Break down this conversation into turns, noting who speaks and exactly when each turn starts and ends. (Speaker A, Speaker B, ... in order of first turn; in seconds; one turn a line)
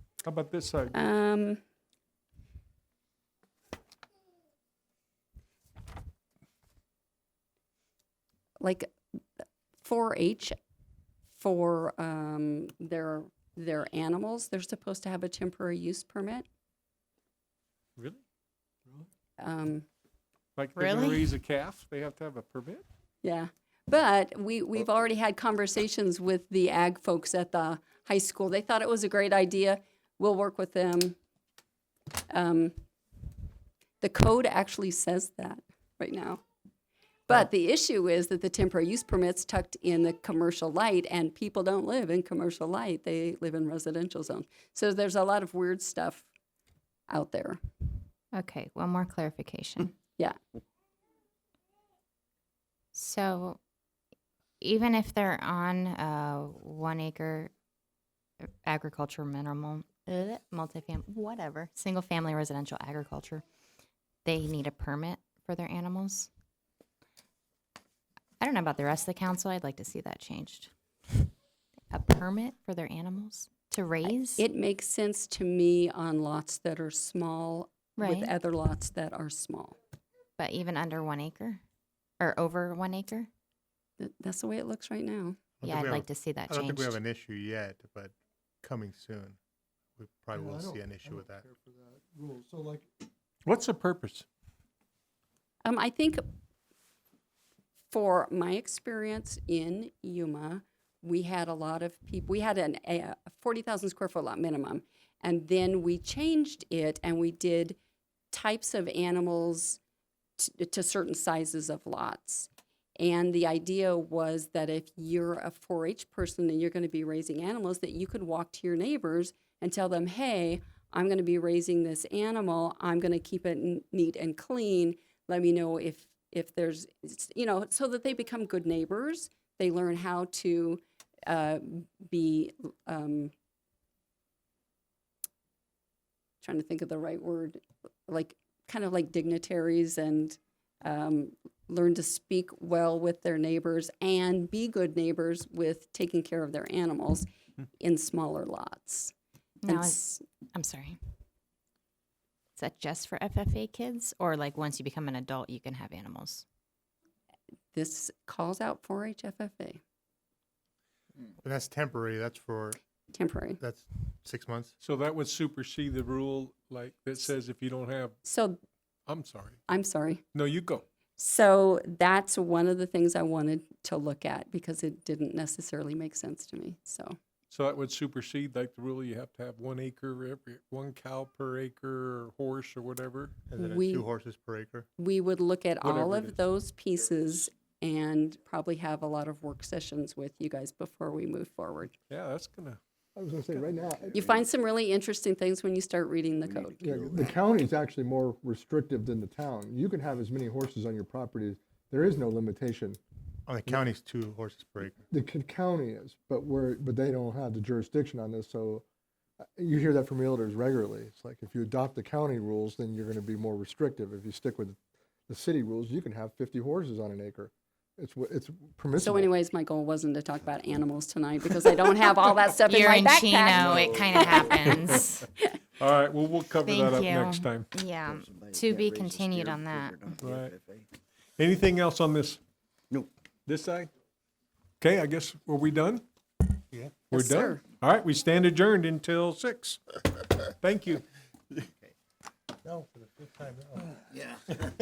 Speaker A: 0.2-0.9
Speaker B: 0.9-1.6
Speaker B: 8.6-8.9
Speaker B: 9.8-10.6
Speaker B: 11.3-16.4
Speaker A: 18.0-18.2
Speaker B: 19.4-19.9
Speaker A: 20.6-22.8
Speaker C: 20.8-21.3
Speaker B: 23.2-31.1
Speaker B: 32.3-32.7
Speaker B: 34.0-36.4
Speaker B: 37.3-46.3
Speaker B: 47.1-47.6
Speaker C: 48.3-50.0
Speaker C: 52.9-53.6
Speaker C: 54.6-57.5
Speaker C: 58.4-63.4
Speaker C: 64.2-66.3
Speaker C: 68.4-71.3
Speaker C: 71.9-74.4
Speaker B: 74.1-79.8
Speaker C: 78.0-78.3
Speaker C: 80.4-81.6
Speaker C: 82.2-83.3
Speaker B: 84.0-85.4
Speaker D: 85.6-89.4
Speaker C: 85.6-87.0
Speaker D: 90.0-91.4
Speaker E: 90.3-92.9
Speaker A: 93.5-94.2
Speaker B: 95.6-96.2
Speaker B: 97.9-107.8
Speaker B: 108.3-109.8
Speaker B: 110.4-133.3
Speaker B: 136.4-147.3
Speaker B: 147.8-149.1
Speaker C: 149.6-151.0
Speaker B: 149.6-150.2
Speaker C: 152.6-156.4
Speaker B: 157.7-159.8
Speaker D: 161.4-162.8
Speaker B: 163.1-163.6
Speaker D: 163.6-164.7
Speaker A: 164.8-168.2
Speaker B: 168.2-168.6
Speaker A: 169.1-169.6
Speaker B: 169.7-170.2
Speaker A: 170.3-170.8
Speaker B: 171.2-177.2
Speaker A: 177.5-183.4
Speaker D: 183.5-184.9
Speaker B: 183.5-184.0
Speaker B: 185.0-191.9
Speaker A: 185.8-186.4
Speaker A: 192.1-192.8
Speaker E: 193.2-194.3
Speaker B: 194.1-196.8
Speaker F: 196.5-197.3
Speaker E: 196.8-203.0
Speaker D: 203.5-205.0
Speaker E: 205.1-208.8
Speaker E: 209.6-214.8
Speaker E: 215.3-219.3
Speaker B: 219.0-225.5
Speaker C: 222.7-225.3
Speaker A: 223.5-225.1
Speaker A: 225.8-227.7
Speaker C: 226.6-230.2
Speaker F: 228.0-230.9
Speaker A: 230.2-230.5
Speaker A: 231.4-232.4
Speaker A: 233.4-233.9
Speaker A: 234.8-236.0
Speaker D: 236.7-237.0
Speaker A: 237.1-239.9
Speaker B: 237.1-237.6
Speaker A: 240.5-241.0
Speaker D: 242.6-244.0
Speaker F: 244.2-244.6